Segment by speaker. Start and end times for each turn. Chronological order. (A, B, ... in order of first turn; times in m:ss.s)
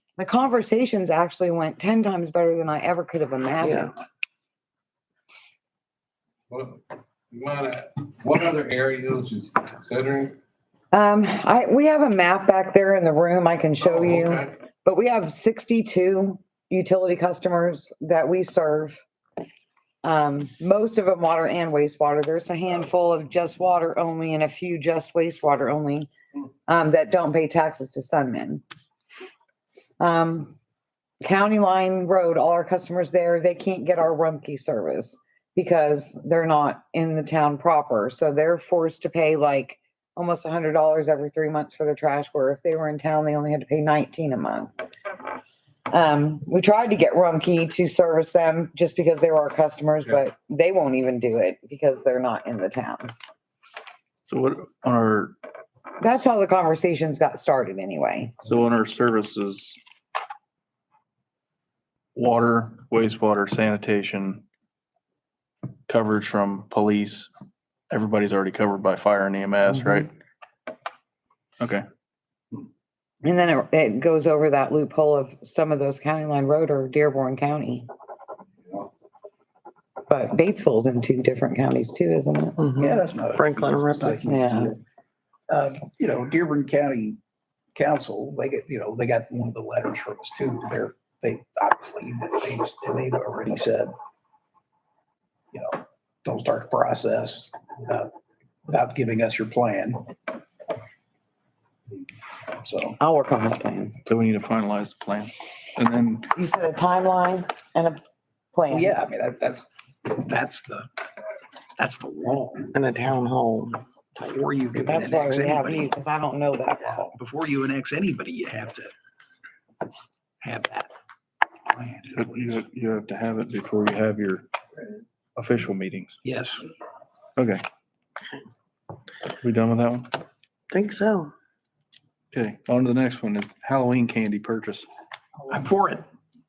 0:00.2-0:04.0 A
0:03.6-0:03.9 B
0:06.5-0:10.4 C
0:10.9-0:19.0 A
0:20.0-0:26.1 A
0:26.7-0:28.6 A
0:30.0-0:30.5 A
0:31.2-0:44.7 A
0:45.9-0:53.1 A
0:54.2-0:55.3 D
0:56.0-0:58.3 A
0:58.4-0:59.8 D
1:02.1-1:04.4 D
1:05.9-1:07.3 D
1:07.9-1:10.1 D
1:13.2-1:17.9 A
1:20.1-1:22.6 A
1:22.6-1:24.2 B
1:22.8-1:24.8 E
1:24.2-1:24.7 A
1:25.5-1:27.2 E
1:27.7-1:33.9 E
1:35.5-1:38.1 E
1:38.7-1:40.1 E
1:42.6-1:43.0 E
1:43.0-1:44.0 A
1:44.0-1:46.3 D
1:46.3-1:48.0 A
1:48.5-1:48.9 A
1:48.7-1:50.9 E
1:51.8-1:52.7 E
1:52.7-1:53.8 B
1:54.1-1:55.9 E
1:54.8-1:57.0 A
1:56.8-1:58.9 E
2:00.4-2:00.9 E
2:01.7-2:02.6 E
2:02.1-2:04.5 D
2:05.4-2:06.1 D
2:06.2-2:06.6 E
2:07.4-2:07.6 D
2:09.4-2:10.1 D
2:10.7-2:11.3 B
2:12.3-2:14.9 D
2:15.5-2:16.0 E